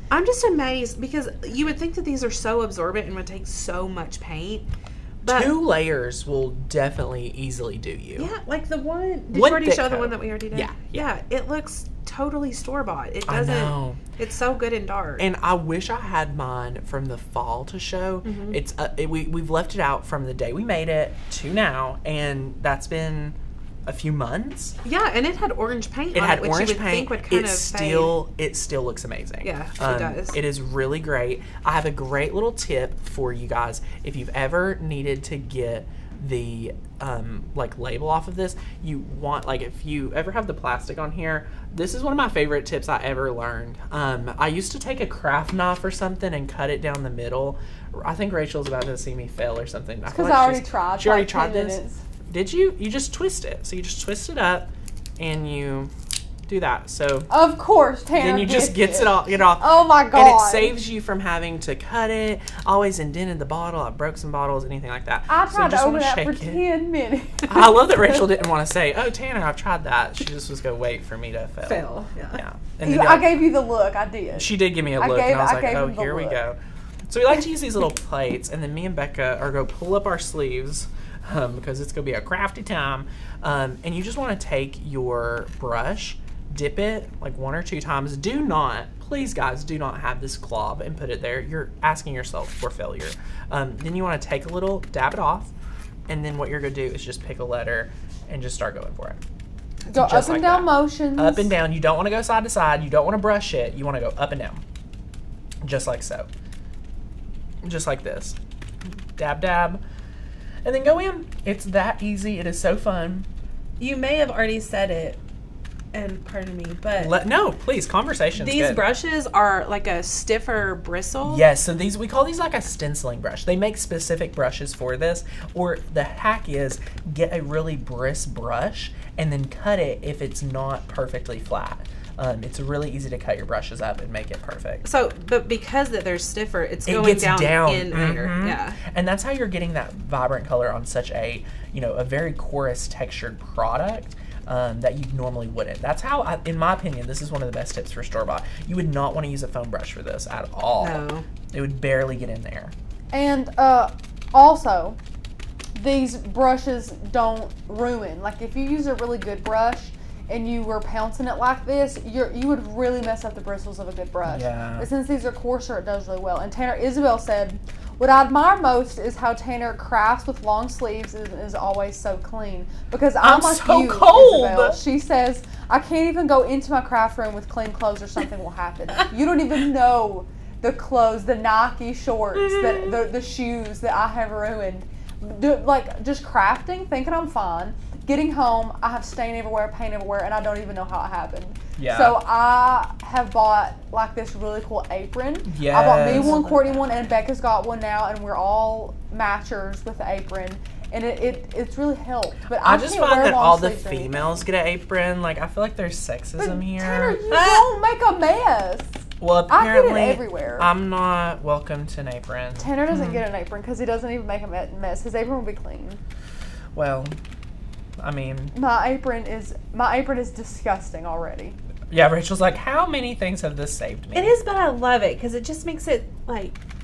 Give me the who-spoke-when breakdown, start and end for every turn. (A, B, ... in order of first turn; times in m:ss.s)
0:00.1-0:05.6 A
0:05.2-0:08.3 B
0:08.2-0:15.3 A
0:09.3-0:11.0 B
0:13.3-0:14.0 B
0:15.2-0:24.8 B
0:18.2-0:18.6 A
0:24.8-0:28.2 A
0:26.1-0:55.9 B
0:29.4-0:30.4 A
0:50.1-0:52.0 C
0:56.5-0:57.3 B
0:57.3-1:00.8 C
0:58.2-1:06.6 B
1:05.3-1:08.2 C
1:07.5-1:13.4 B
1:11.7-1:12.4 A
1:12.8-1:16.4 C
1:14.3-1:16.6 B
1:17.1-1:35.5 B
1:36.1-1:39.2 B
1:39.9-1:41.5 C
1:40.0-1:44.6 B
1:45.6-1:46.3 B
1:47.6-1:48.4 B
1:49.2-1:49.8 B
1:50.6-1:53.3 B
1:53.8-1:55.2 A
1:55.9-1:57.2 A
1:57.0-1:58.8 B
1:58.4-2:01.4 A
2:01.2-2:14.8 B
2:14.8-2:18.8 A
2:16.9-2:32.7 B
2:30.8-2:31.2 A
2:33.1-2:35.0 C
2:35.8-3:24.4 C
2:44.3-2:44.9 B
2:53.2-2:54.8 B
3:11.8-3:12.2 B
3:15.4-3:16.4 B
3:16.0-3:16.8 A
3:22.6-3:27.7 B
3:26.4-3:30.7 C
3:29.2-3:32.8 B
3:32.6-3:36.0 C
3:36.8-3:37.2 B
3:38.0-3:38.5 B
3:38.5-3:41.6 C
3:41.9-3:44.3 B
3:44.1-3:46.6 A